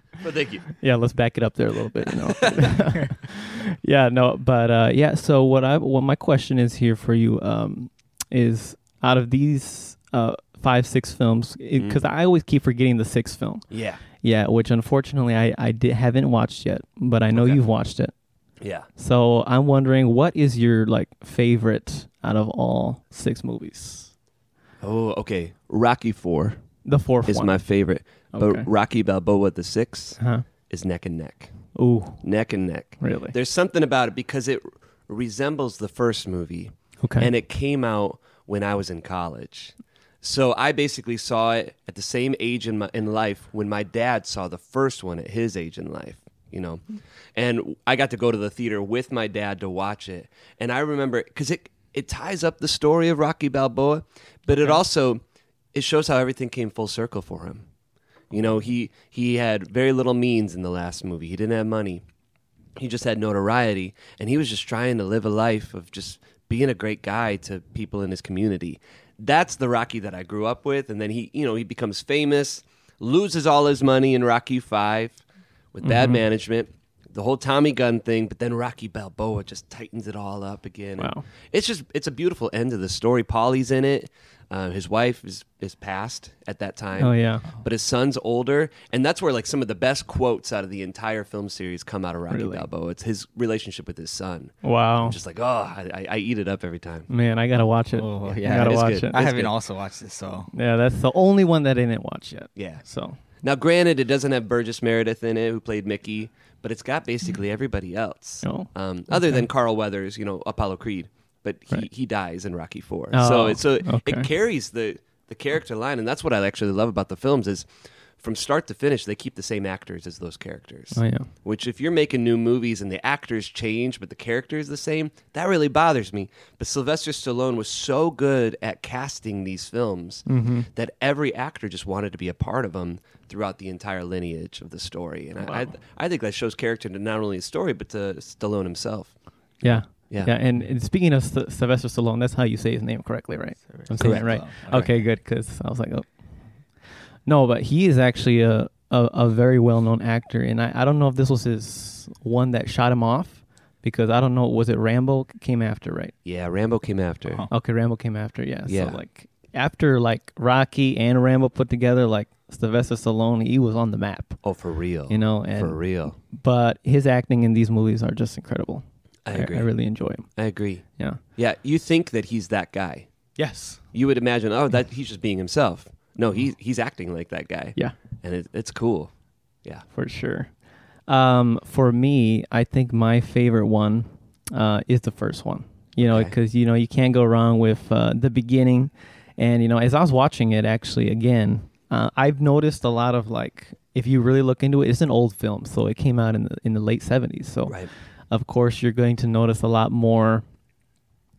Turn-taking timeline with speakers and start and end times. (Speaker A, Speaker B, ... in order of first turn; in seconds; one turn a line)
Speaker A: 0.2-0.8
Speaker B: 0.8-18.1
Speaker A: 13.7-14.0
Speaker A: 17.3-17.6
Speaker A: 18.6-18.9
Speaker B: 19.0-24.1
Speaker A: 24.8-26.6
Speaker B: 26.9-27.6
Speaker A: 27.3-31.6
Speaker B: 28.3-28.7
Speaker B: 30.2-30.4
Speaker B: 31.8-32.2
Speaker A: 32.2-55.2
Speaker B: 33.0-33.4
Speaker B: 37.0-37.3
Speaker B: 54.5-54.8
Speaker A: 55.7-57.6
Speaker A: 58.3-62.0
Speaker A: 62.8-75.2
Speaker A: 75.7-97.1
Speaker B: 75.8-76.2
Speaker B: 81.0-81.2
Speaker B: 87.0-87.5
Speaker B: 92.3-92.7
Speaker B: 94.6-95.2
Speaker B: 97.1-99.4
Speaker C: 97.9-100.5
Speaker A: 98.2-99.5
Speaker B: 100.5-103.2
Speaker A: 102.6-117.7
Speaker B: 108.4-109.5
Speaker B: 113.1-114.3
Speaker A: 118.2-140.3
Speaker B: 120.9-121.3
Speaker B: 130.3-130.7
Speaker B: 135.4-135.7
Speaker B: 139.6-156.1
Speaker C: 143.7-145.0
Speaker A: 144.0-144.4
Speaker A: 156.2-157.5
Speaker C: 157.3-157.5
Speaker B: 157.5-164.4
Speaker A: 158.7-159.0
Speaker A: 164.4-166.2
Speaker B: 165.1-170.4
Speaker A: 169.2-173.1
Speaker B: 173.4-173.8
Speaker A: 173.9-179.9
Speaker B: 179.9-200.4
Speaker A: 186.0-186.3